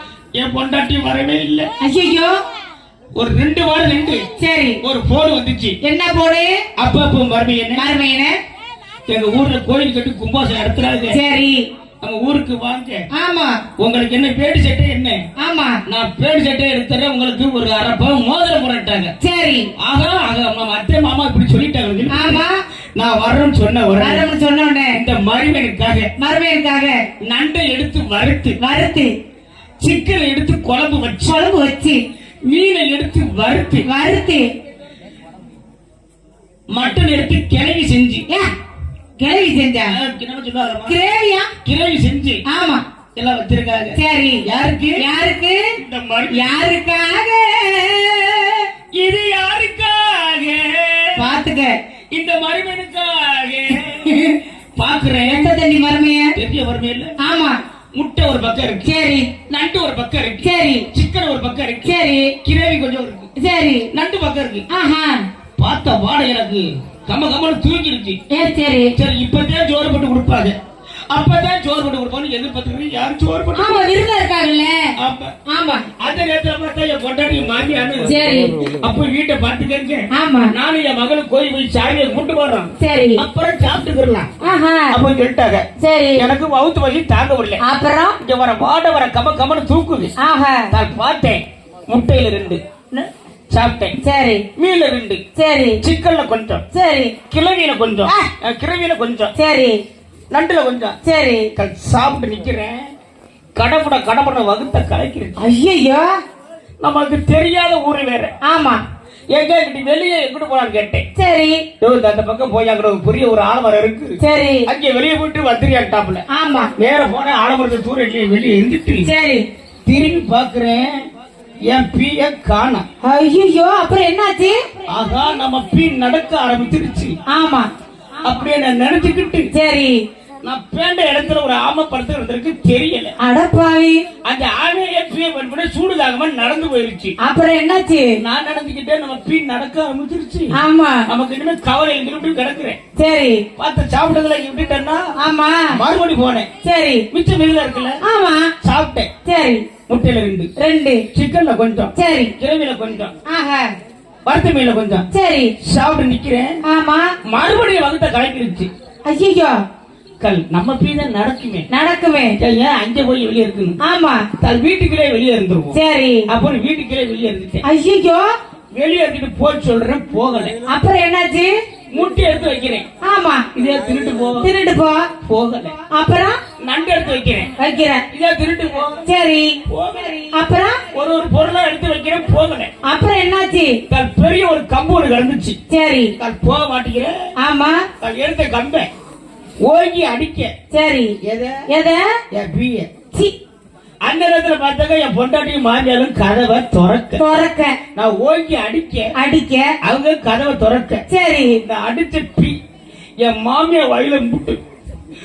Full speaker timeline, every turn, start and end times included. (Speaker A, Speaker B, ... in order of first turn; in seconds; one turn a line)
Speaker A: 0.4-1.7
Speaker B: 1.8-2.4
Speaker A: 3.1-4.2
Speaker B: 4.4-4.8
Speaker A: 4.8-5.8
Speaker B: 5.8-6.5
Speaker A: 6.8-7.8
Speaker B: 7.8-8.4
Speaker A: 9.1-11.2
Speaker B: 11.1-11.7
Speaker A: 12.0-13.0
Speaker B: 13.1-13.6
Speaker A: 13.8-15.2
Speaker B: 15.4-15.8
Speaker A: 15.9-19.1
Speaker B: 19.2-19.7
Speaker A: 19.8-22.4
Speaker B: 22.1-22.6
Speaker A: 23.0-24.3
Speaker B: 24.0-25.0
Speaker A: 24.9-26.1
Speaker B: 26.2-27.1
Speaker A: 27.2-28.6
Speaker B: 28.6-29.2
Speaker A: 29.8-31.4
Speaker B: 31.2-32.0
Speaker A: 32.5-33.9
Speaker B: 33.8-34.5
Speaker A: 36.7-38.2
Speaker B: 39.2-40.0
Speaker A: 39.9-41.0
Speaker B: 40.9-41.5
Speaker A: 41.6-42.4
Speaker B: 42.5-42.8
Speaker A: 43.1-45.0
Speaker B: 44.0-44.5
Speaker B: 45.0-45.8
Speaker A: 45.8-46.5
Speaker B: 46.3-48.7
Speaker A: 48.9-51.3
Speaker B: 51.2-51.8
Speaker A: 52.1-55.5
Speaker B: 53.9-54.4
Speaker B: 55.2-56.4
Speaker A: 56.3-57.2
Speaker B: 57.2-57.6
Speaker A: 58.0-58.9
Speaker B: 58.8-59.3
Speaker A: 59.5-63.3
Speaker B: 60.4-60.9
Speaker B: 61.8-62.4
Speaker B: 63.4-63.9
Speaker A: 63.9-64.6
Speaker B: 64.7-65.2
Speaker A: 65.6-68.2
Speaker B: 68.3-68.9
Speaker A: 68.9-70.6
Speaker A: 71.1-73.9
Speaker B: 73.5-74.9
Speaker A: 75.0-75.3
Speaker B: 75.5-75.9
Speaker A: 76.0-84.3
Speaker B: 78.0-78.6
Speaker B: 80.1-80.5
Speaker B: 82.8-83.2
Speaker B: 84.4-85.0
Speaker A: 84.9-87.6
Speaker B: 85.8-86.3
Speaker B: 87.6-88.2
Speaker A: 88.2-90.1
Speaker B: 90.2-90.7
Speaker A: 90.7-94.0
Speaker B: 94.0-94.5
Speaker A: 94.5-95.2
Speaker B: 95.3-95.8
Speaker A: 95.8-96.6
Speaker B: 96.7-97.2
Speaker A: 97.3-99.3
Speaker B: 99.3-99.8
Speaker A: 100.3-101.0
Speaker B: 101.0-101.5
Speaker A: 101.5-102.9
Speaker A: 103.5-105.3
Speaker B: 105.4-106.2
Speaker A: 106.8-108.3
Speaker B: 108.4-108.8
Speaker A: 109.3-111.0
Speaker B: 111.2-111.6
Speaker A: 111.8-114.2
Speaker B: 114.2-114.7
Speaker A: 114.7-116.2
Speaker B: 116.3-116.7
Speaker A: 116.8-119.1
Speaker B: 119.0-119.5
Speaker A: 119.9-121.0
Speaker A: 121.7-122.8
Speaker B: 123.0-124.7
Speaker A: 124.9-127.1
Speaker B: 127.3-127.7
Speaker A: 128.2-129.5
Speaker B: 129.5-130.0
Speaker A: 130.4-133.1
Speaker B: 133.2-134.0
Speaker A: 134.2-137.1
Speaker B: 137.2-138.2
Speaker A: 138.2-140.5
Speaker B: 140.5-141.0
Speaker A: 141.1-142.8
Speaker B: 142.9-143.4
Speaker A: 143.6-145.1
Speaker B: 145.2-145.8
Speaker A: 145.7-146.5
Speaker B: 146.6-147.1
Speaker A: 147.1-148.0
Speaker B: 148.0-148.5
Speaker A: 148.6-149.1
Speaker B: 149.2-149.7
Speaker A: 149.9-150.5
Speaker B: 150.6-151.1
Speaker A: 151.1-153.1
Speaker B: 151.9-152.3
Speaker B: 153.2-153.7
Speaker A: 154.2-155.1
Speaker B: 155.1-155.5
Speaker A: 155.6-156.6
Speaker B: 156.6-157.1
Speaker A: 157.2-158.7
Speaker B: 159.1-159.6
Speaker A: 160.2-161.7
Speaker B: 161.7-162.4
Speaker A: 162.4-163.8
Speaker B: 163.8-164.3
Speaker A: 164.3-165.8
Speaker B: 165.7-166.3
Speaker A: 166.3-167.6
Speaker B: 167.6-168.3
Speaker A: 168.8-170.6
Speaker B: 170.6-171.5
Speaker A: 171.9-172.8
Speaker B: 173.0-173.5
Speaker A: 173.5-174.5
Speaker B: 174.4-175.1
Speaker A: 175.2-175.8
Speaker B: 175.9-176.4
Speaker A: 176.6-177.5
Speaker B: 177.6-178.0
Speaker A: 178.1-179.0
Speaker B: 179.0-179.6
Speaker A: 179.7-180.3
Speaker B: 180.1-180.8
Speaker A: 180.9-182.7
Speaker B: 182.8-183.8
Speaker A: 183.9-185.6
Speaker B: 185.7-186.1
Speaker A: 186.2-187.1
Speaker B: 187.4-187.9
Speaker A: 188.0-188.9
Speaker A: 189.6-190.5
Speaker B: 190.7-191.2
Speaker A: 191.2-191.7
Speaker B: 191.7-192.1
Speaker A: 192.3-192.9
Speaker A: 194.0-197.2
Speaker B: 197.2-197.8
Speaker A: 197.9-199.1
Speaker B: 199.1-199.8
Speaker A: 199.8-201.0
Speaker B: 201.1-201.6
Speaker A: 201.6-202.6
Speaker A: 203.2-204.6